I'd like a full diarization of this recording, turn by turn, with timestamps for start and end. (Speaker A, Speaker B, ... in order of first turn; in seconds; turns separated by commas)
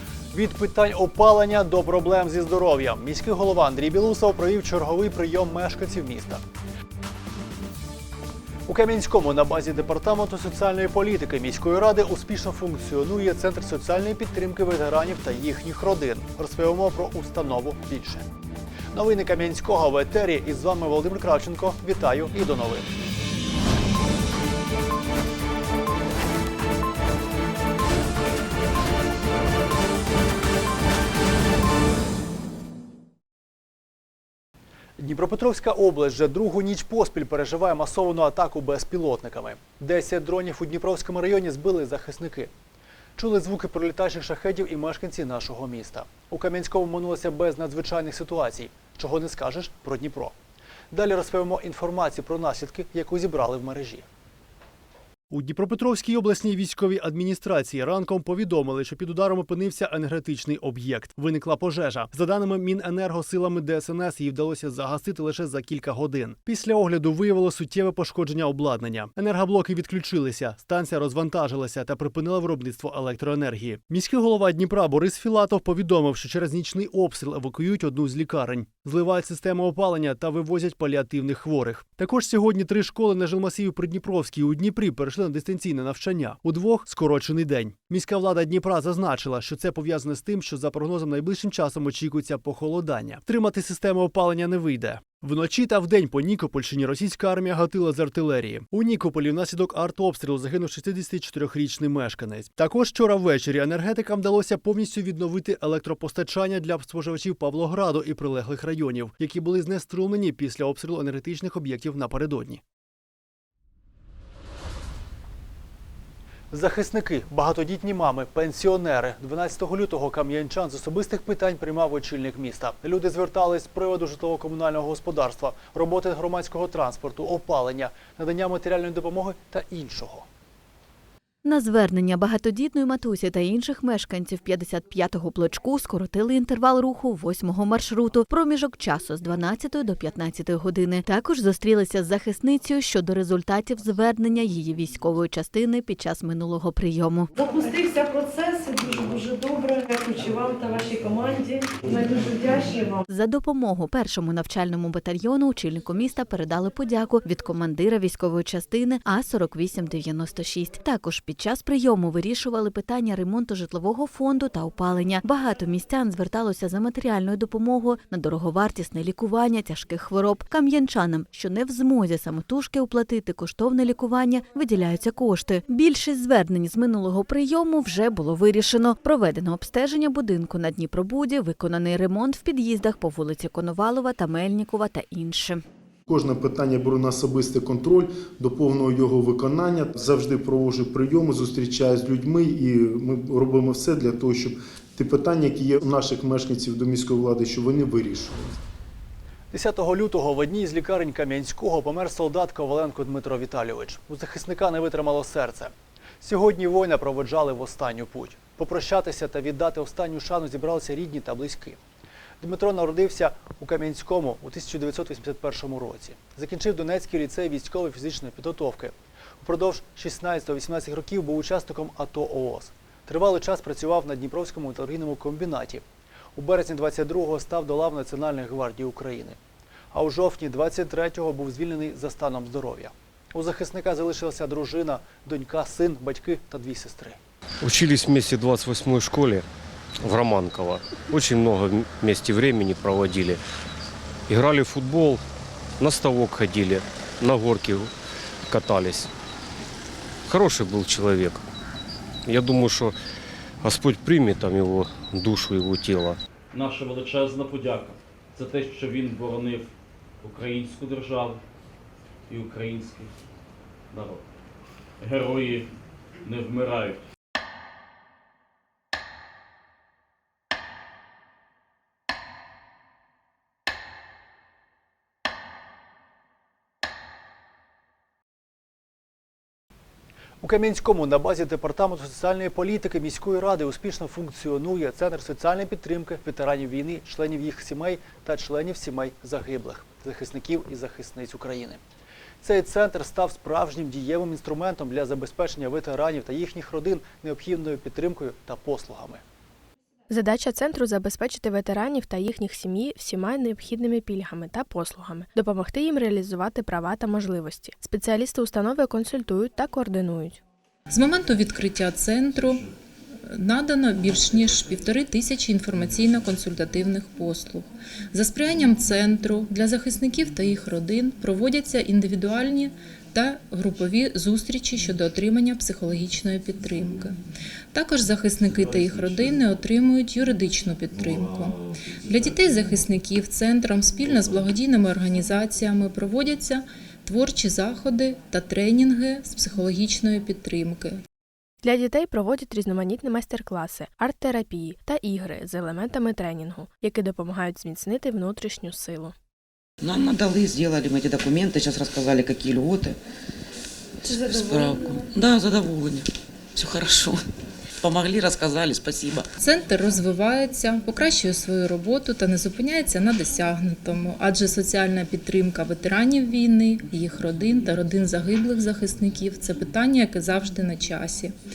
Speaker A: 0.3-6.4, Speaker A: 8.7-18.3, Speaker A: 18.9-22.9, Speaker A: 35.0-42.5, Speaker A: 43.2-50.3, Speaker A: 50.9-54.0, Speaker A: 55.3-112.6, Speaker A: 116.5-130.2, Speaker B: 131.4-147.3, Speaker C: 147.4-153.0, Speaker B: 153.1-185.6, Speaker D: 186.1-198.5, Speaker A: 199.5-211.8, Speaker A: 212.4-225.8, Speaker A: 226.3-229.4, Speaker A: 229.9-237.2, Speaker E: 237.6-239.4, Speaker E: 240.0-243.4, Speaker E: 244.3-245.2, Speaker E: 245.8-247.9, Speaker E: 248.5-249.1, Speaker E: 250.3-251.4, Speaker E: 252.2-252.9, Speaker E: 253.6-256.2, Speaker F: 256.5-259.7, Speaker F: 260.2-261.4, Speaker F: 262.3-263.1, Speaker F: 263.9-264.2, Speaker F: 265.0-265.6, Speaker F: 266.2-267.0, Speaker A: 280.4-291.8, Speaker A: 292.4-299.2, Speaker G: 300.1-310.4, Speaker H: 310.9-312.6, Speaker H: 313.3-327.2, Speaker H: 327.7-341.0, Speaker G: 341.6-349.1, Speaker I: 349.8-353.0, Speaker I: 354.0-357.3, Speaker I: 357.8-359.3, Speaker H: 359.4-371.3